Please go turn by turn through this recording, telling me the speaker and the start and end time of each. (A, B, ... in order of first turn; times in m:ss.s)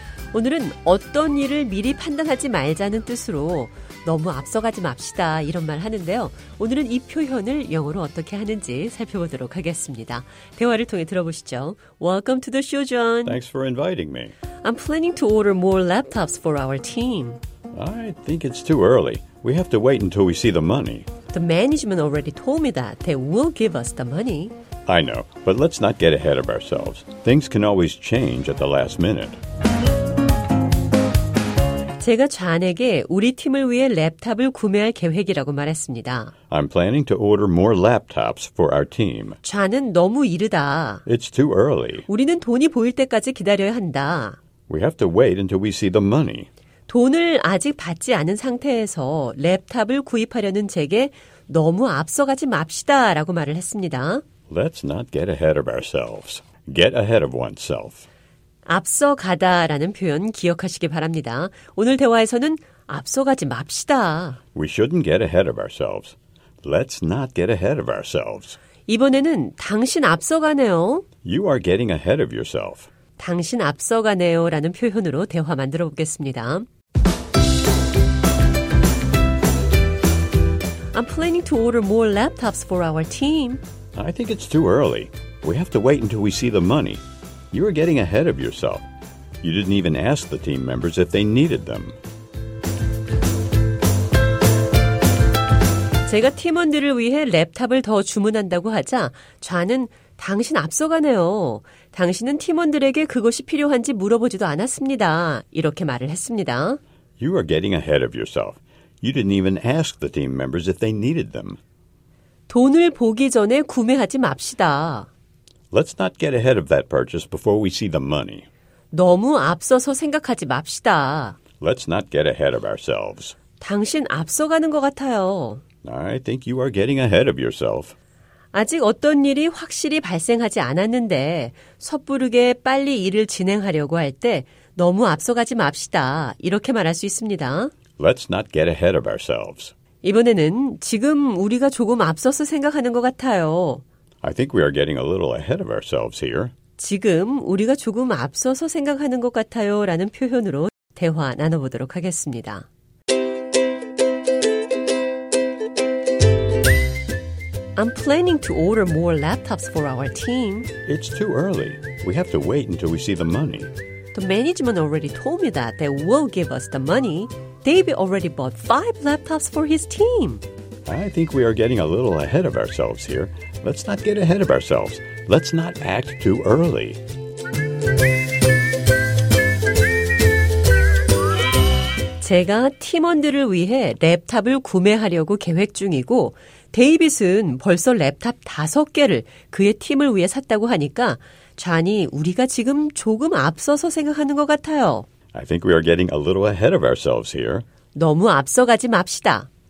0:00.3-0:13.4 A
0:13.3-0:14.3 B
0:14.6-0:17.4 A
0:17.7-0:21.1 B
0:21.3-0:24.5 A
0:24.9-0:29.4 B
0:32.0-0:36.3 A
0:36.5-0:39.4 B
0:39.4-0:41.0 A
0:41.1-0:42.1 B
0:42.1-0:44.4 A
0:44.7-0:46.5 B
0:46.9-0:54.2 A
0:54.5-0:58.1 B
0:58.7-1:04.4 A
1:04.6-1:08.6 B
1:08.9-1:11.0 A
1:11.2-1:12.9 B
1:13.2-1:16.7 A
1:20.9-1:23.6 A
1:24.0-1:28.8 B
1:29.4-1:32.0 B
1:36.1-1:46.8 A
1:47.2-1:51.6 B
1:52.5-1:55.1 A
1:55.7-1:58.5 B
1:58.9-2:01.4 A
2:01.6-2:03.4 B
2:03.6-2:05.6 A
2:05.8-2:08.0 B
2:08.5-2:17.7 A
2:18.0-2:19.7 B
2:20.0-2:23.8 A
2:24.2-2:26.5 B
2:26.8-2:32.7 A
2:37.8-2:40.7 A
2:40.9-2:43.7 B
2:44.1-2:50.4 A
2:50.9-2:57.0 B
3:02.2-3:15.1 A
3:15.3-3:17.6 B
3:17.9-3:19.5 A